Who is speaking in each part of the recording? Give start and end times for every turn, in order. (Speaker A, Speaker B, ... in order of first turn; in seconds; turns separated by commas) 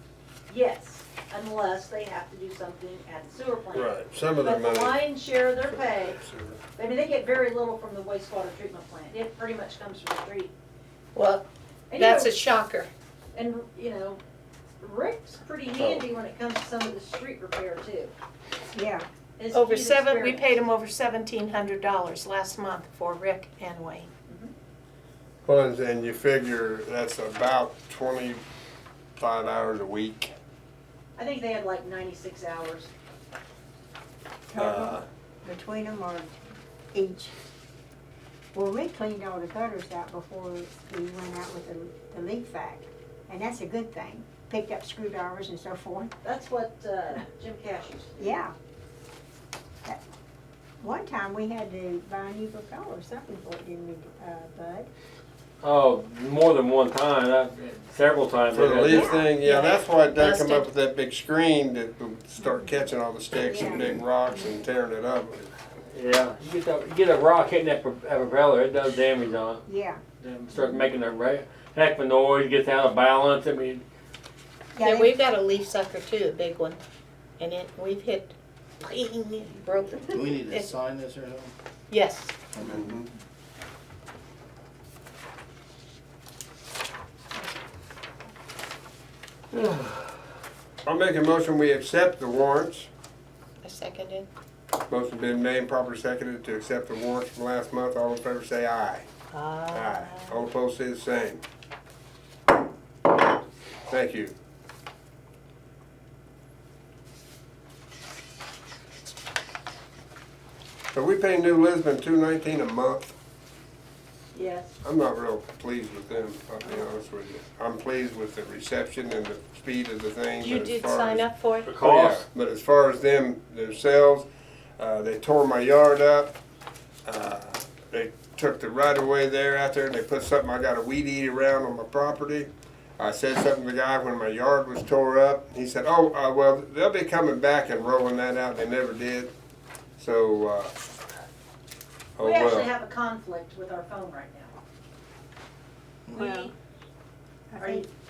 Speaker A: 0.5-6.2, Speaker B: 3.7-6.6, Speaker A: 6.8-10.5, Speaker C: 11.2-12.9, Speaker A: 11.9-12.3, Speaker A: 13.3-14.2, Speaker A: 14.8-18.1, Speaker B: 15.8-16.1, Speaker D: 18.7-19.1, Speaker A: 19.4-20.6, Speaker C: 19.5-24.1, Speaker B: 25.5-28.4, Speaker B: 29.2-30.3, Speaker A: 31.2-32.9, Speaker D: 34.5-36.4, Speaker B: 34.6-35.1, Speaker D: 36.9-37.3, Speaker D: 38.5-46.1, Speaker A: 46.2-48.4, Speaker D: 48.2-48.5, Speaker D: 50.8-54.9, Speaker E: 55.6-59.1, Speaker B: 58.5-65.5, Speaker D: 58.9-59.3, Speaker C: 59.2-60.7, Speaker D: 62.4-62.9, Speaker D: 63.5-64.6, Speaker E: 65.9-69.6, Speaker D: 69.7-70.0, Speaker E: 70.2-73.8, Speaker D: 70.6-70.8, Speaker D: 74.8-75.2, Speaker C: 74.8-76.8, Speaker C: 77.4-80.7, Speaker F: 80.1-81.5, Speaker C: 81.9-82.3, Speaker F: 82.5-83.0, Speaker B: 82.6-83.1, Speaker E: 89.5-90.1, Speaker B: 90.8-92.9, Speaker C: 93.6-94.3, Speaker B: 94.9-99.1, Speaker C: 99.3-100.5, Speaker B: 99.7-101.4, Speaker B: 103.9-104.3, Speaker B: 110.9-113.1, Speaker A: 114.3-114.7, Speaker B: 114.8-124.3, Speaker C: 120.4-121.7, Speaker E: 121.7-122.3, Speaker B: 124.8-126.3, Speaker B: 127.0-139.3, Speaker B: 140.0-140.7, Speaker B: 142.2-142.7, Speaker A: 142.2-144.5, Speaker F: 146.1-146.4, Speaker A: 146.2-146.5, Speaker D: 146.2-146.5, Speaker D: 147.5-147.9, Speaker A: 147.6-147.9